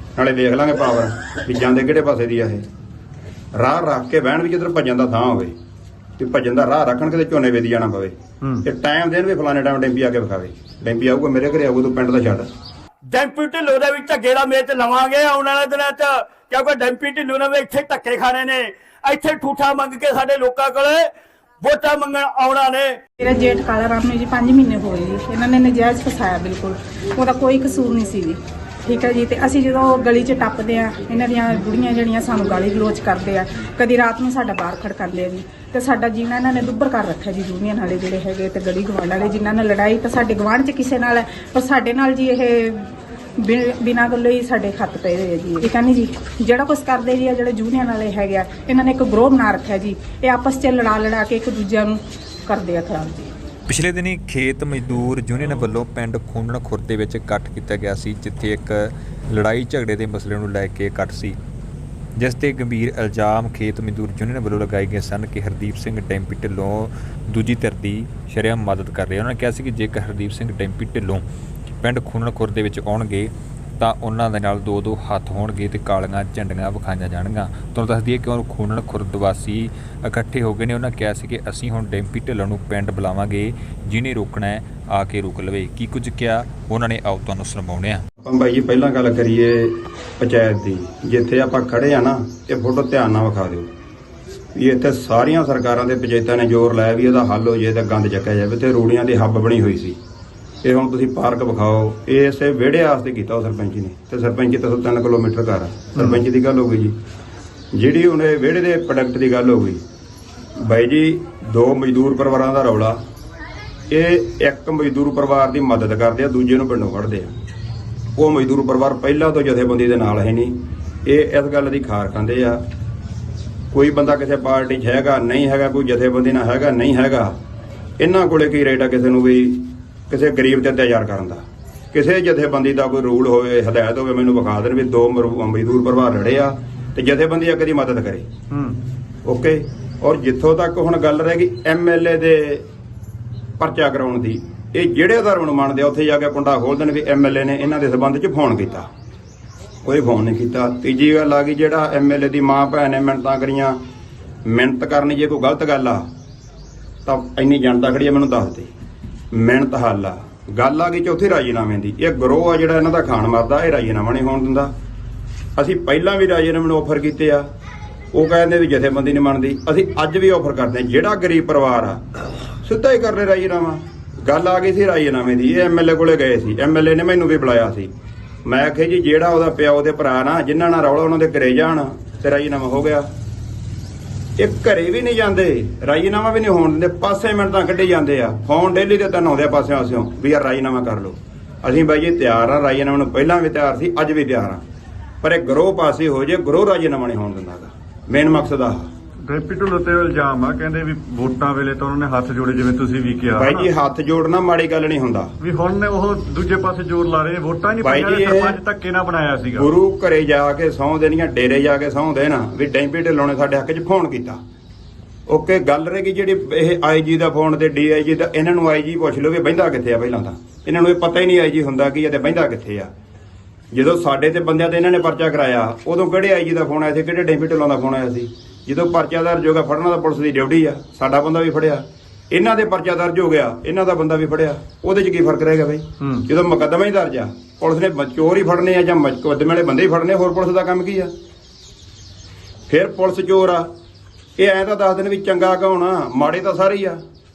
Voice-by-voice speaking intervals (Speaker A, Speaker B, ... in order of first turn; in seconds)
Speaker A: 0.2-2.6, 3.5-5.5, 6.2-12.5, 88.2-93.7, 94.5-100.0, 100.6-107.0, 107.7-109.8, 110.6-113.0, 113.9-117.3, 118.2-120.5, 121.0-122.6, 123.7-127.3, 128.0-131.4, 131.9-138.3, 139.2-142.7, 143.6-148.9, 149.8-153.8, 154.4-156.1, 157.1-158.7, 159.3-164.7, 165.6-167.4, 168.1-172.0, 172.7-177.9, 178.5-183.1, 184.4-194.6, 195.2-198.8, 203.4-205.3, 207.8-208.6, 209.6-214.4, 215.3-222.9, 223.7-241.1, 242.7-243.7, 244.4-247.0
Speaker B: 13.1-23.0
Speaker C: 23.2-42.9, 43.4-53.3
Speaker D: 53.7-61.4, 62.2-71.2, 71.8-88.0
Speaker E: 138.5-138.8, 199.2-203.7, 205.4-209.7, 236.0-236.2